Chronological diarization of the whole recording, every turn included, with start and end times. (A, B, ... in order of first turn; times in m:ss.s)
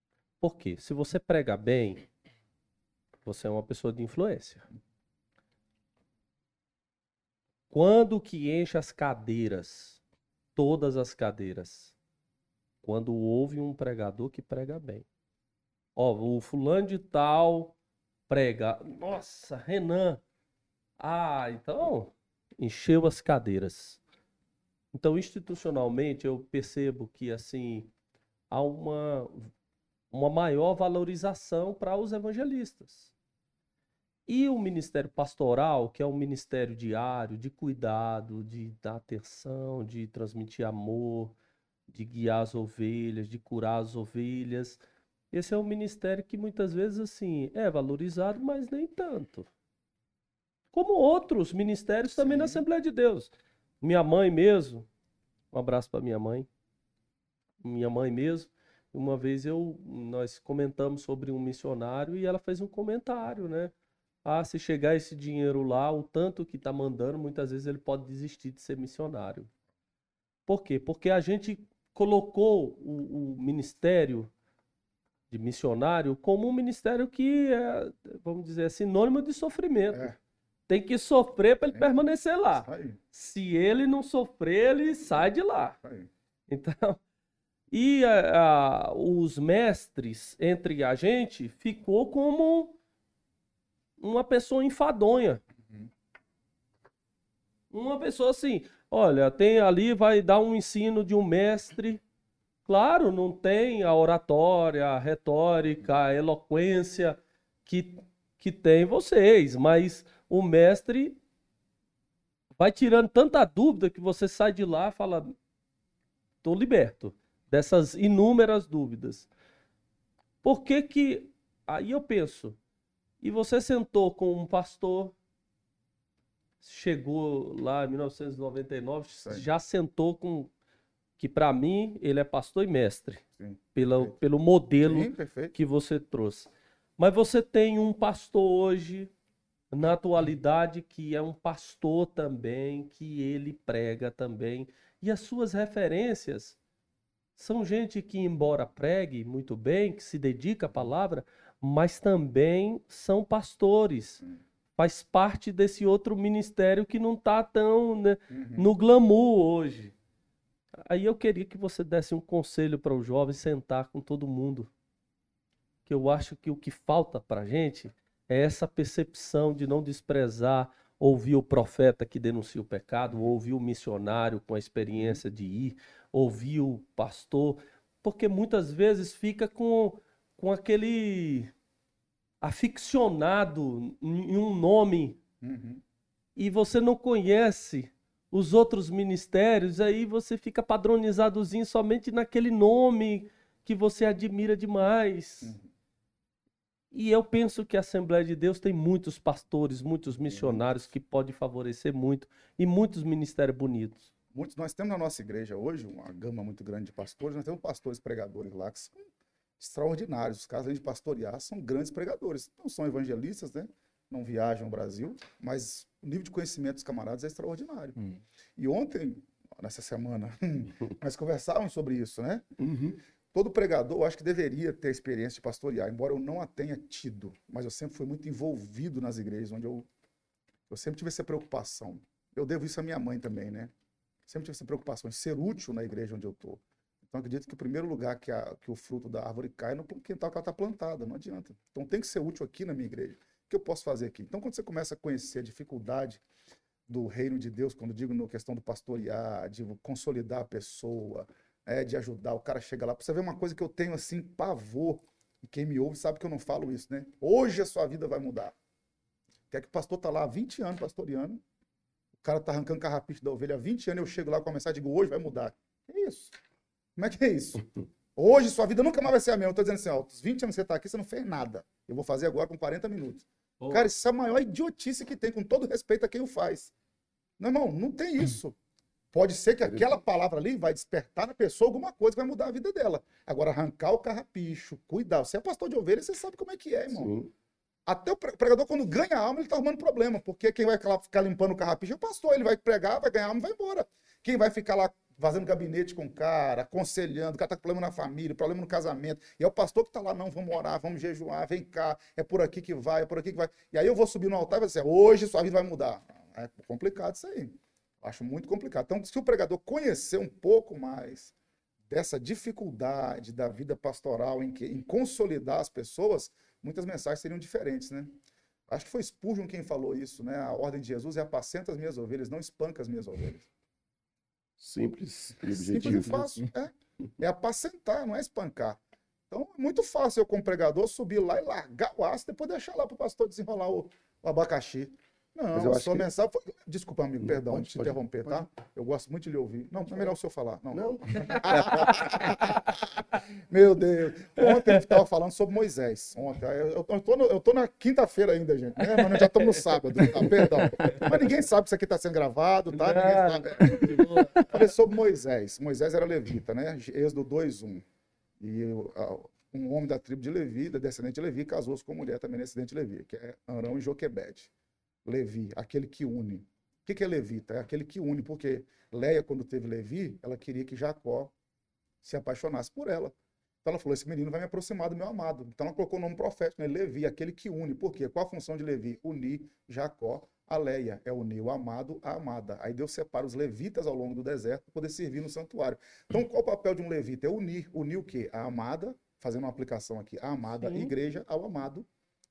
0:00.4-0:02.0 A
0:03.2-0:04.7 A
0:07.7-0:10.0 A
0:10.6-0:11.9 A
0:12.8-0:15.0 A
0:16.0-0:17.7 A
0:18.3-0:20.2 A
0:21.0-0:24.0 A
0:24.9-0:27.9 A
0:28.5-0:29.5 A
0:30.1-0:33.1 A
0:34.3-0:41.3 A
0:41.9-0:44.8 A
0:45.3-0:49.5 A
0:50.7-0:54.9 A
0:52.2-0:52.6 B
0:55.5-0:56.5 A
0:57.6-1:03.7 A
1:04.2-1:09.5 A
1:10.5-1:14.3 A
1:15.3-1:20.1 A
1:20.7-1:25.8 A
1:22.5-1:23.0 B
1:25.8-1:26.1 B
1:26.5-1:27.0 A
1:27.7-1:32.8 A
1:34.0-1:35.4 A
1:37.7-1:42.0 A
1:42.6-1:51.2 A
1:52.6-1:55.3 A
1:56.4-1:59.3 A
2:00.4-2:02.6 A
2:03.2-2:05.1 A
2:06.6-2:10.5 A
2:09.2-2:09.5 B
2:11.2-2:19.1 A
2:13.4-2:14.1 B
2:14.8-2:15.5 B
2:19.7-2:26.6 A
2:27.4-2:34.2 A
2:34.8-2:39.9 A
2:38.3-2:38.7 B
2:40.8-2:44.7 A
2:45.8-3:01.5 A
2:54.9-2:55.2 B
3:02.4-3:05.2 A
3:05.4-3:05.8 B
3:06.4-3:15.5 A
3:15.4-3:15.7 B
3:16.9-3:24.1 A
3:20.2-3:20.6 B
3:24.3-3:29.0 B
3:29.6-3:38.0 B
3:38.6-3:42.4 B
3:42.6-3:43.0 C
3:43.3-3:49.9 B
3:50.7-3:53.7 B
3:54.3-4:06.2 B
4:06.9-4:18.5 B
4:19.5-4:21.4 B
4:22.2-4:26.4 B
4:27.0-4:36.7 B
4:33.6-4:33.9 A
4:37.4-4:38.6 B
4:39.1-4:47.1 B
4:39.6-4:40.0 C
4:46.9-4:47.3 C
4:47.8-5:11.3 B
5:11.9-5:18.2 B
5:18.7-5:23.5 B
5:24.6-5:26.3 C
5:25.5-5:28.8 B
5:29.3-5:57.8 B
5:35.5-5:36.1 C
5:37.2-5:38.4 C
5:40.7-5:42.0 C
5:52.7-5:54.6 A
5:58.4-6:04.5 B
6:05.0-6:11.3 B
6:12.0-6:31.9 B
6:30.6-6:30.9 A